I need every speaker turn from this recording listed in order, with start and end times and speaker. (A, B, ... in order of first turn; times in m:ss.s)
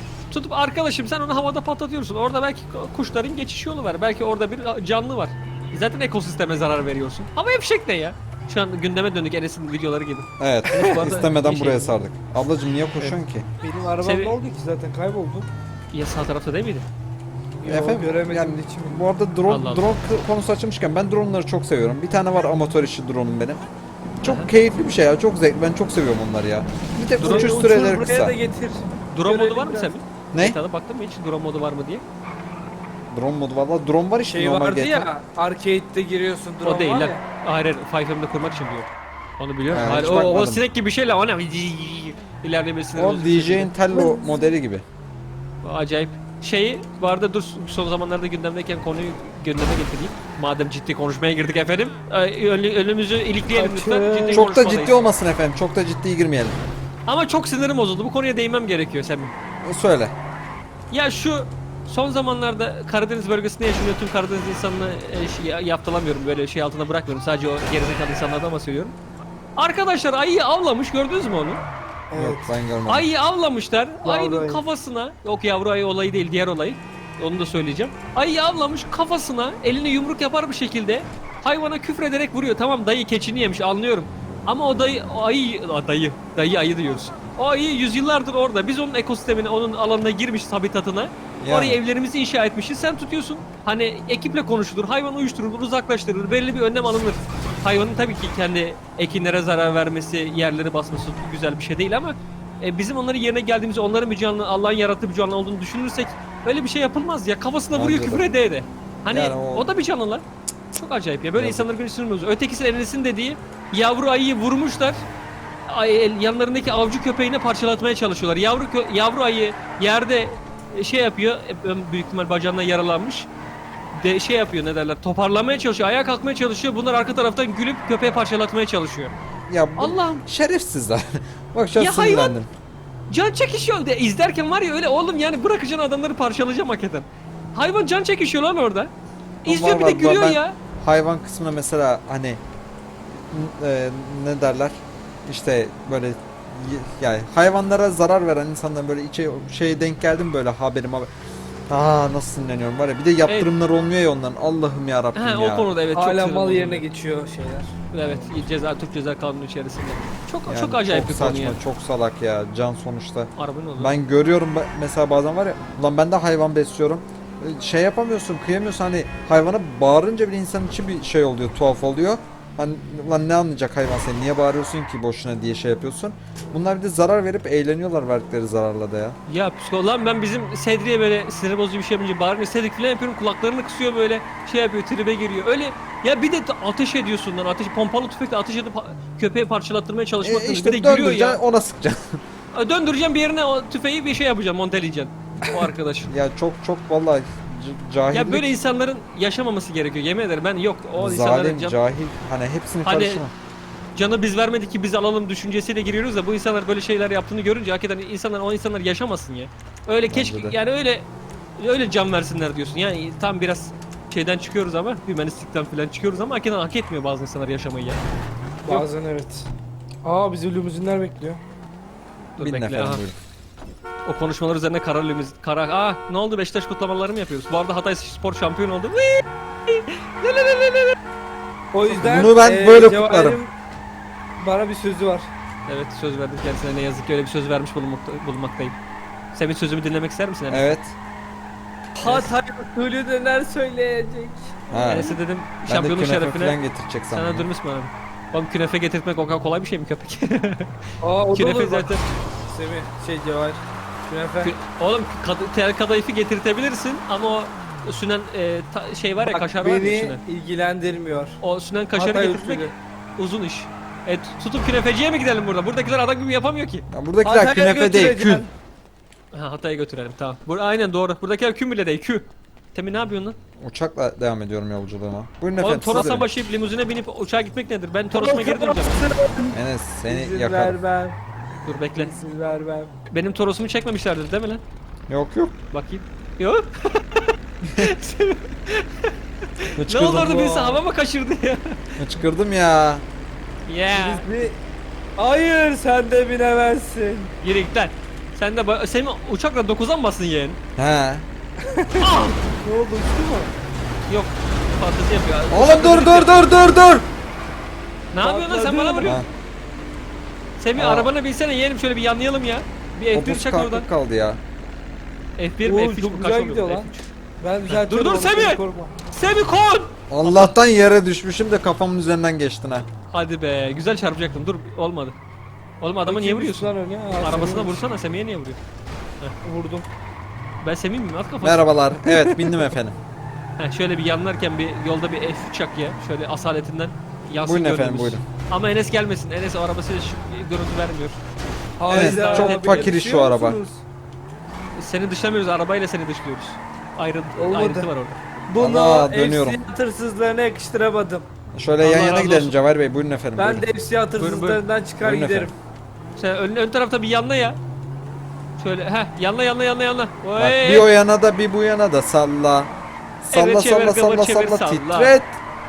0:00.3-0:12.0 A
0:10.4-0:13.5 B
0:13.0-0:15.5 C
0:14.0-0:14.4 A
0:15.9-0:16.8 A
0:17.6-0:19.0 C
0:17.6-0:23.6 B
0:19.5-0:19.8 A
0:24.2-0:28.4 B
0:24.2-0:24.5 A
0:27.2-0:27.8 A
0:27.2-0:30.0 C
0:29.1-0:32.0 A
0:30.3-0:30.6 B
0:33.1-0:35.1 B
0:34.3-0:37.2 C
0:36.6-0:43.8 A
0:39.7-0:40.6 B
0:42.9-0:44.8 B
0:43.9-0:44.4 C
0:45.6-0:55.0 A
0:53.5-0:54.5 C
0:54.3-0:56.6 B
0:57.0-0:59.3 A
0:59.6-1:00.1 B
1:00.9-1:08.9 A
1:09.6-1:11.6 A
1:12.1-1:12.5 C
1:12.1-1:13.1 B
1:12.9-1:55.0 A
1:14.0-1:14.6 C
1:31.4-1:31.8 B
1:47.7-1:48.3 B
1:49.1-1:49.7 B
1:51.3-1:51.7 B
1:55.7-2:03.3 A
2:03.9-2:09.1 A
2:09.5-2:12.5 B
2:09.8-2:10.2 A
2:11.8-2:12.4 A
2:13.1-2:18.9 A
2:19.4-2:20.6 A
2:19.4-2:22.4 B
2:23.3-2:31.1 B
2:31.7-2:35.8 B
2:35.1-2:36.9 A
2:35.9-2:37.7 C
2:37.9-2:41.6 A
2:40.4-2:59.2 B
2:43.4-2:44.0 A
2:59.3-3:11.4 A
3:10.2-3:12.2 B
3:12.5-3:16.1 A
3:16.1-3:18.5 B
3:18.1-3:21.8 A
3:21.0-3:23.3 B
3:22.8-3:23.2 A
3:23.9-3:38.0 A
3:30.1-3:30.6 B
3:38.6-3:39.5 C
3:40.0-3:41.4 C
3:42.4-3:43.0 A
3:42.4-3:43.2 B
3:44.0-3:51.0 A
3:51.7-3:53.5 C
3:51.9-3:53.4 B
3:54.4-3:55.3 C
3:55.7-3:58.8 A
3:59.3-4:00.7 A
4:00.5-4:00.9 B
4:02.0-4:02.3 A
4:02.0-4:05.1 C
4:04.7-4:07.5 B
4:04.8-4:06.6 A
4:07.1-4:10.7 A
4:11.0-4:14.5 C
4:11.3-4:12.0 A
4:14.4-4:20.2 A
4:19.2-4:21.4 C
4:21.4-4:26.8 A
4:22.0-4:22.7 C
4:26.9-4:28.4 B
4:27.2-4:28.5 C
4:29.3-4:33.4 A
4:33.6-4:36.3 B
4:35.6-4:39.2 A
4:38.1-4:41.2 C
4:39.5-4:40.8 B
4:41.6-4:42.1 A
4:41.9-4:42.9 C
4:43.1-4:44.6 A
4:45.1-4:45.5 B
4:45.7-4:51.8 A
4:49.8-4:50.4 B
4:50.3-4:50.8 C
4:52.0-4:53.0 B
4:53.6-4:54.2 A
4:53.9-4:54.6 C
4:55.2-4:57.3 C
4:57.4-5:00.6 A
5:00.8-5:01.2 B
5:01.6-5:03.5 C
5:02.0-5:02.4 A
5:04.1-5:06.3 A
5:05.5-5:07.0 B
5:08.1-5:09.2 A
5:08.2-5:09.2 C
5:09.0-5:09.3 B
5:10.6-5:13.9 A
5:10.7-5:11.1 B
5:13.1-5:14.4 B
5:15.4-5:17.1 A
5:15.6-5:16.9 C
5:17.4-5:18.9 C
5:17.7-5:20.6 A
5:20.1-5:22.9 B
5:23.1-5:25.2 A
5:25.8-5:28.6 A
5:26.0-5:27.8 C
5:29.4-5:29.9 C
5:30.6-5:31.7 A
5:31.4-5:33.0 B
5:32.1-5:32.7 C
5:33.6-5:41.2 A
5:37.4-5:38.2 B
5:41.8-5:43.8 C
5:41.9-5:43.6 B
5:42.0-5:42.9 A
5:44.7-5:48.2 A
5:47.4-5:47.9 C
5:48.5-5:51.2 C
5:48.6-5:49.6 B
5:51.5-5:53.7 B
5:51.8-5:52.6 A
5:53.4-5:55.5 C
5:54.2-5:54.6 A
5:55.0-5:55.5 B
5:56.2-5:57.6 A
5:58.6-6:00.9 A
6:00.4-6:02.7 B
6:03.2-6:05.4 B
6:03.3-6:05.1 A